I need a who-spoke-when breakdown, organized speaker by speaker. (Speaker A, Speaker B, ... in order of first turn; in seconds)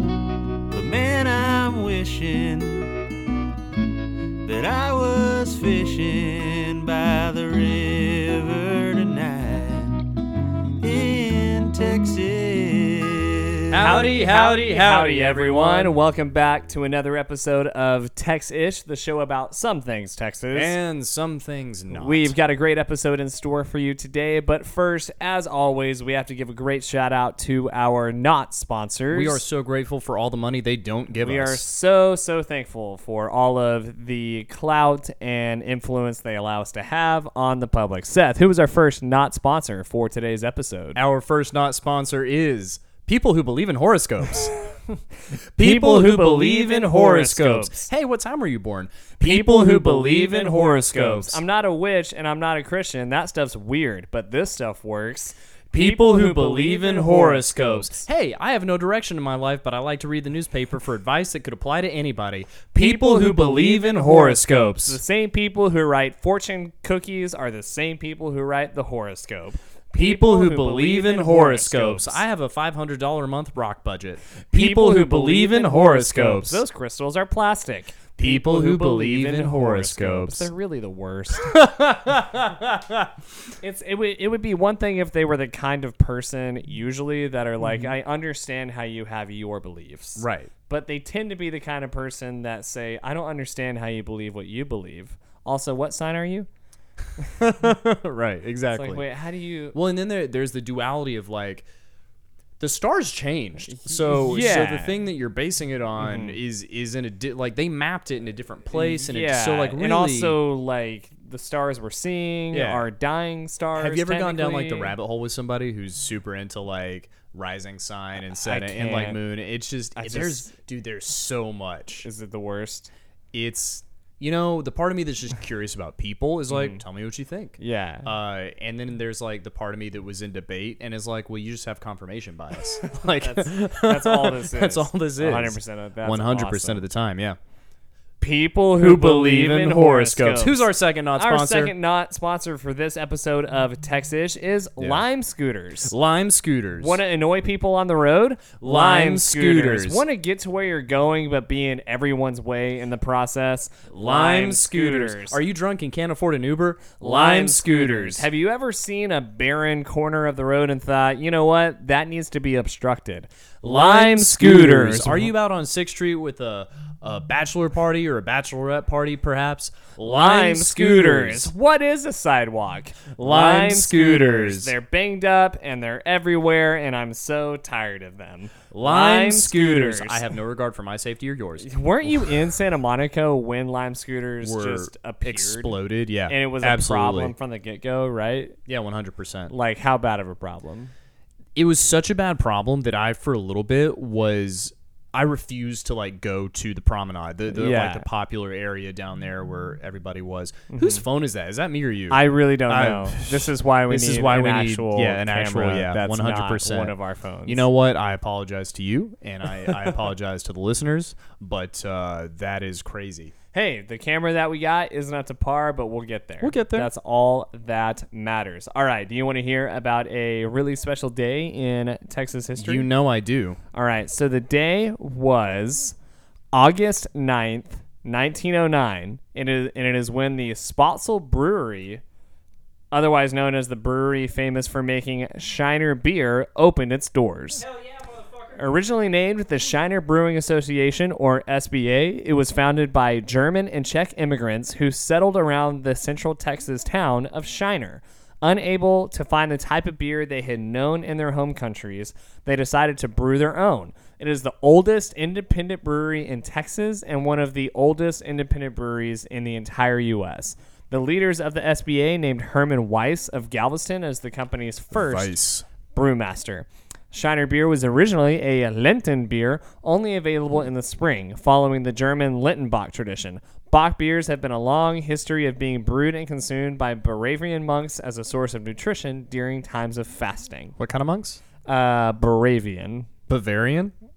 Speaker A: 0.7-3.0, 4.4-10.2, 10.8-13.8
Speaker B: 13.7-15.9, 20.5-22.3, 29.1-31.6, 41.0-44.5, 45.6-51.4, 55.7-65.0, 69.9-76.7, 78.2-80.5, 81.4-83.1, 87.6-87.9, 90.2-90.5, 97.4-99.0, 99.7-101.7, 102.6-110.4, 112.5-112.9, 113.8-122.1, 123.3-137.4, 138.8-141.7, 144.8-145.1, 145.9-147.0, 148.6-150.0, 153.9-158.3, 163.6-171.5, 173.2-174.7, 178.7-182.3, 184.4-187.3, 188.7-189.5, 191.6-206.9, 207.5-213.3, 216.4-216.9, 222.6-223.6, 264.9-265.7, 280.8-281.4, 283.3-283.9
Speaker C: 13.8-20.8, 21.9-29.4, 31.2-41.0, 45.6-47.9, 49.2-58.0, 62.8-72.2, 74.5-81.6, 83.6-96.5, 98.7-99.8, 103.7-105.0, 106.0-106.4, 108.7-115.0, 118.3-119.2, 120.0-120.5, 122.0-122.9, 126.5-126.8, 127.6-128.1, 132.8-136.9, 138.2-145.9, 146.8-155.4, 157.0-165.3, 170.0-180.3, 181.6-188.6, 189.5-190.9, 197.5-198.1, 200.7-201.0, 202.1-207.7, 213.5-222.9, 223.7-226.0, 226.5-232.0, 232.9-237.7, 238.4-265.4, 265.9-280.8, 281.6-283.1